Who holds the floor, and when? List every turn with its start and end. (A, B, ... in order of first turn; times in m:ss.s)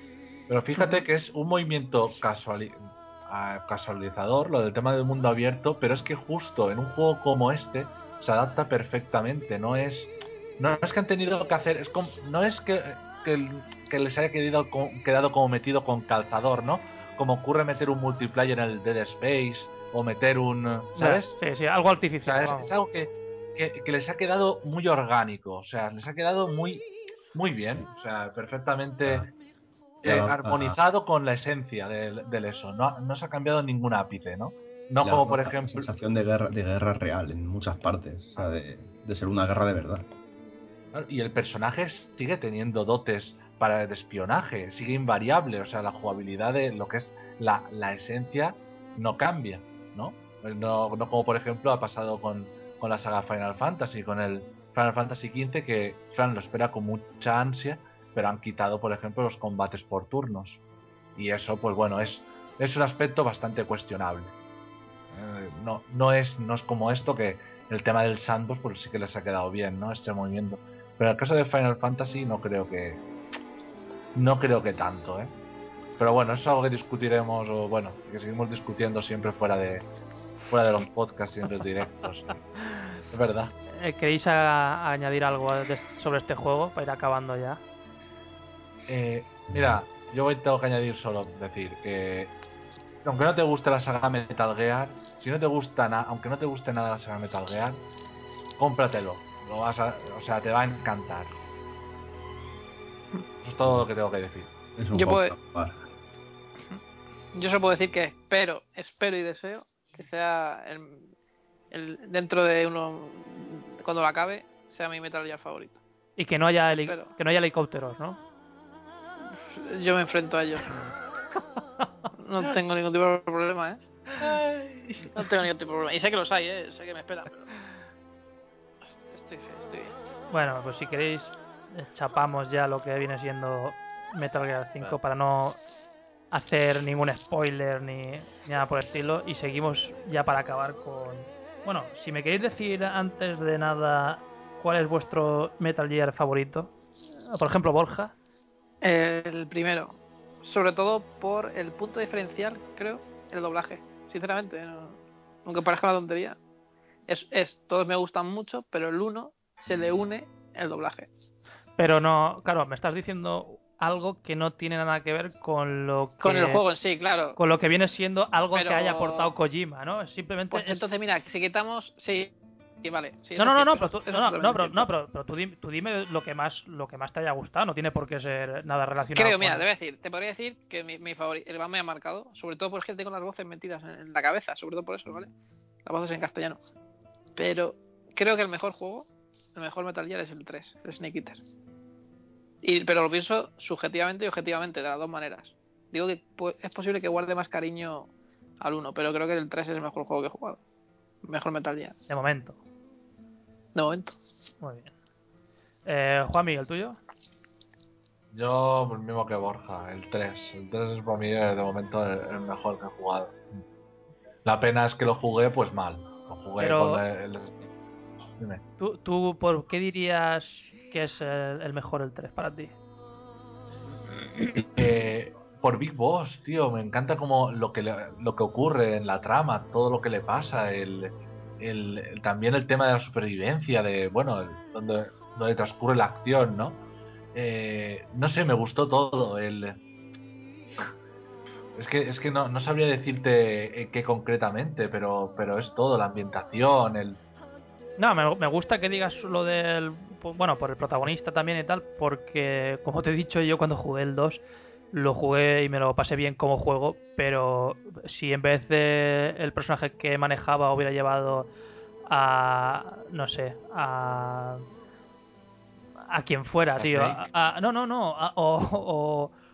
0:00.5-0:21.3 A
0:21.0-0:22.7 B
0:22.2-0:29.3 A
0:27.6-0:27.8 C
0:30.0-0:30.8 C
0:30.0-0:35.9 A
0:35.0-0:40.0 C
0:40.9-1:00.6 A
1:01.2-1:04.3 A
1:05.1-1:13.0 A
1:14.1-1:15.3 A
1:16.0-1:19.8 A
1:20.5-1:22.4 A
1:23.1-1:23.5 A
1:23.8-1:27.6 B
1:28.9-1:32.3 A
1:29.5-1:29.8 C
1:33.0-1:37.8 A
1:38.6-1:41.3 A
1:43.4-1:44.5 A
1:44.8-1:45.8 C
1:44.9-1:45.3 D
1:47.3-1:51.0 D
1:51.7-1:55.8 D
1:56.2-1:58.2 B
1:56.7-1:57.1 D
1:59.5-2:00.8 D
2:02.2-2:07.5 D
2:08.8-2:10.0 D
2:10.3-2:15.6 B
2:16.3-2:28.1 B
2:28.8-2:36.4 D
2:37.1-2:41.1 D
2:41.8-2:46.6 B
2:46.2-2:47.4 D
2:47.4-2:50.8 B
2:48.5-2:49.3 D
2:50.5-2:52.3 D
2:52.8-2:54.9 D
2:53.4-2:59.6 B
2:59.1-3:05.3 D
3:05.8-3:06.6 D
3:07.4-3:11.4 D
3:12.6-3:18.1 D
3:18.6-3:20.6 D
3:21.2-3:22.0 D
3:22.1-3:22.6 B
3:23.7-3:24.2 D
3:24.6-3:24.9 B
3:25.8-3:27.0 B
3:28.3-3:33.4 A
3:34.4-3:37.7 A
3:36.6-3:37.0 B
3:38.8-3:42.7 B
3:44.7-3:56.8 A
3:57.3-3:59.8 A
4:01.8-4:07.2 A
4:08.0-4:21.5 B
4:22.1-4:24.6 B
4:26.1-4:29.3 B
4:26.7-4:27.2 A